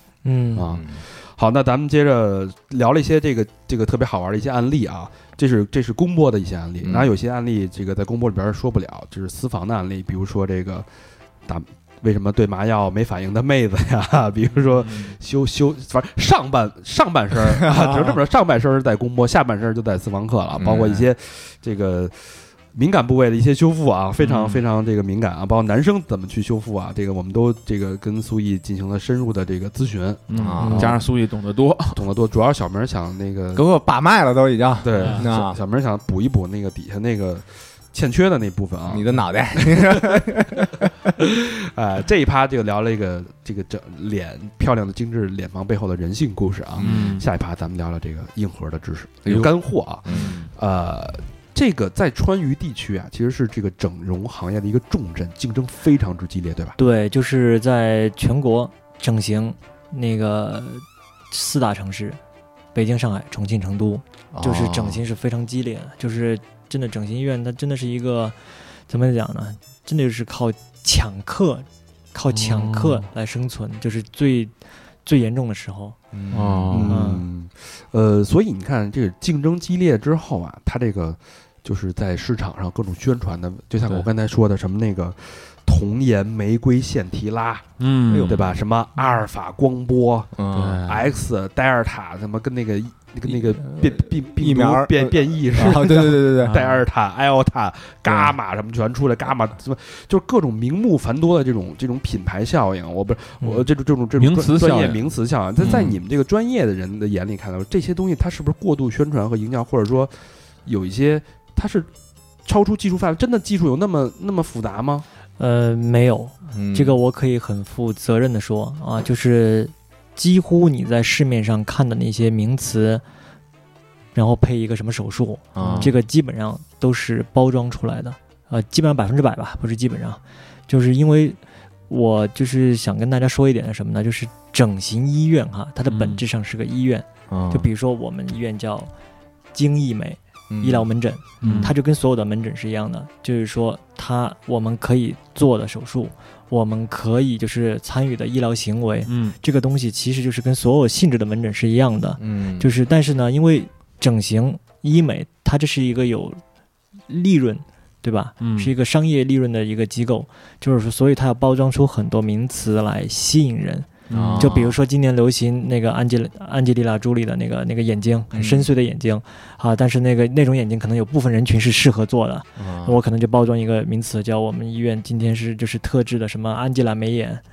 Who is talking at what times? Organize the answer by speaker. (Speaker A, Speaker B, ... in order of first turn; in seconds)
Speaker A: 0.2-0.7, 56.8-62.2, 62.7-68.3, 68.9-74.5, 75.0-76.0, 76.9-77.2, 115.4-123.0, 124.1-131.4, 131.9-138.9, 139.5-156.4, 157.1-177.4
Speaker B: 0.6-10.9, 11.4-31.0, 31.9-33.6, 34.8-40.2, 41.2-56.8, 76.7-90.3, 90.8-110.1, 110.6-111.9, 112.5-115.0
Speaker C: 0.7-1.0, 6.8-7.1, 17.6-18.2, 20.6-21.0, 30.3-30.9, 33.5-35.6, 38.9-40.9, 46.8-47.2, 50.0-50.4, 64.3-65.0, 76.1-76.9, 88.1-88.5, 90.3-90.9, 93.2-96.6, 98.0-98.3, 105.6-106.0, 116.5-117.0, 125.5-126.0, 137.3-137.7, 140.5-140.9, 141.4-141.7, 152.2-152.7, 164.1-164.8, 168.3-168.7, 172.6-173.0
Speaker D: 14.7-15.2, 20.6-21.0, 24.2-24.6, 30.3-32.0, 34.9-35.3, 46.8-47.2, 50.1-50.5, 72.3-73.0, 76.3-77.0, 87.8-88.6, 90.5-91.2, 96.4-96.8, 104.2-105.1, 135.9-136.2, 141.4-141.7, 149.1-149.3, 158.4-158.7, 164.1-164.6